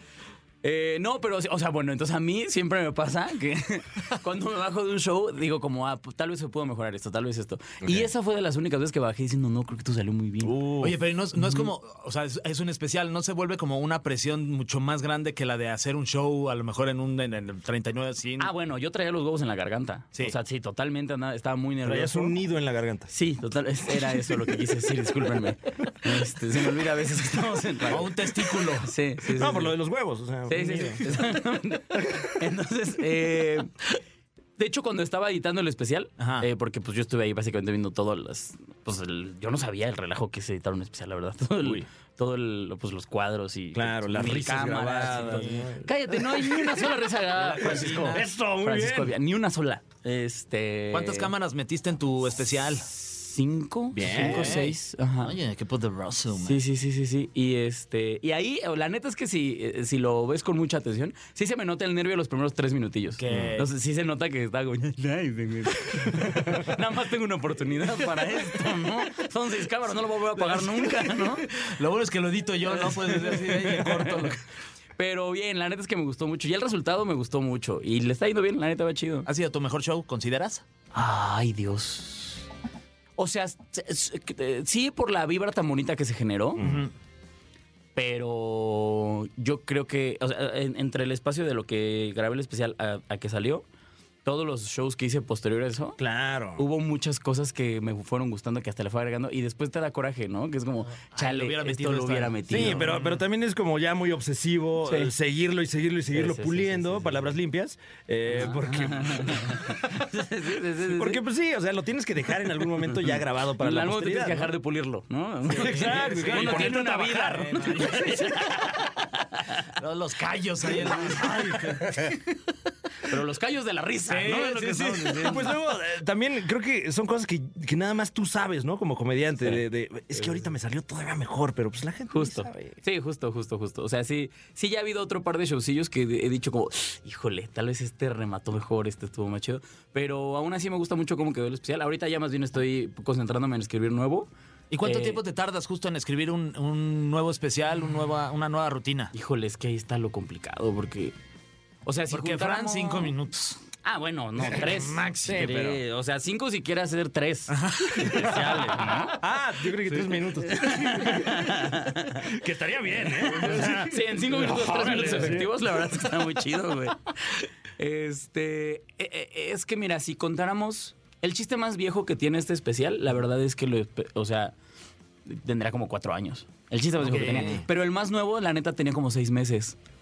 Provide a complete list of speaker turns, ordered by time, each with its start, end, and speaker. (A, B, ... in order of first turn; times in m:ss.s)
0:00.6-0:10.6 A
0:07.8-0:08.1 B
0:10.4-0:11.0 B
0:10.8-0:18.5 C
0:18.4-0:22.4 A
0:21.8-0:23.1 B
0:23.1-0:29.8 A
0:27.9-0:28.9 C
0:29.3-0:31.2 B
0:30.5-0:33.7 A
0:32.0-0:32.2 B
0:34.6-0:51.3 A
0:36.2-0:36.5 C
0:41.6-0:41.9 B
0:43.7-0:46.9 B
0:45.1-0:45.7 C
0:47.3-0:48.3 C
0:47.6-0:49.1 B
0:50.9-0:52.9 C
0:52.8-0:55.4 A
0:53.9-0:54.6 B
0:54.0-0:56.6 C
0:56.4-1:11.5 A
1:03.2-1:03.7 C
1:10.4-1:14.4 C
1:12.7-1:14.4 A
1:15.0-1:19.3 A
1:19.3-1:20.6 C
1:20.9-1:22.4 A
1:23.2-1:26.6 A
1:26.6-1:26.9 B
1:26.6-1:26.9 C
1:28.0-1:33.6 A
1:34.2-1:36.0 A
1:36.0-1:36.6 B
1:36.6-1:42.9 A
1:41.1-1:43.2 C
1:42.5-1:49.6 B
1:44.8-1:45.1 A
1:46.1-1:47.4 A
1:48.4-1:51.2 A
1:50.8-1:54.5 B
1:52.9-1:59.6 A
1:55.5-1:58.4 C
1:55.5-1:57.5 B
1:59.8-2:02.4 C
2:00.8-2:01.4 A
2:01.2-2:01.8 B
2:03.1-2:05.5 A
2:04.1-2:05.4 C
2:05.2-2:12.8 B
2:10.2-2:10.4 A
2:12.1-2:24.3 A
2:24.7-2:29.1 C
2:24.8-2:25.2 A
2:29.1-2:31.1 A
2:31.9-2:33.1 A
2:32.1-2:33.6 C
2:33.8-2:39.2 A
2:34.5-2:35.5 C
2:35.2-2:35.8 B
2:37.5-2:38.8 C
2:38.0-2:38.6 B
2:39.2-2:45.5 B
2:40.5-2:42.3 A
2:43.3-2:54.6 A
2:43.3-2:43.8 C
2:45.0-2:45.3 C
2:55.3-2:59.8 A
2:57.0-2:57.6 C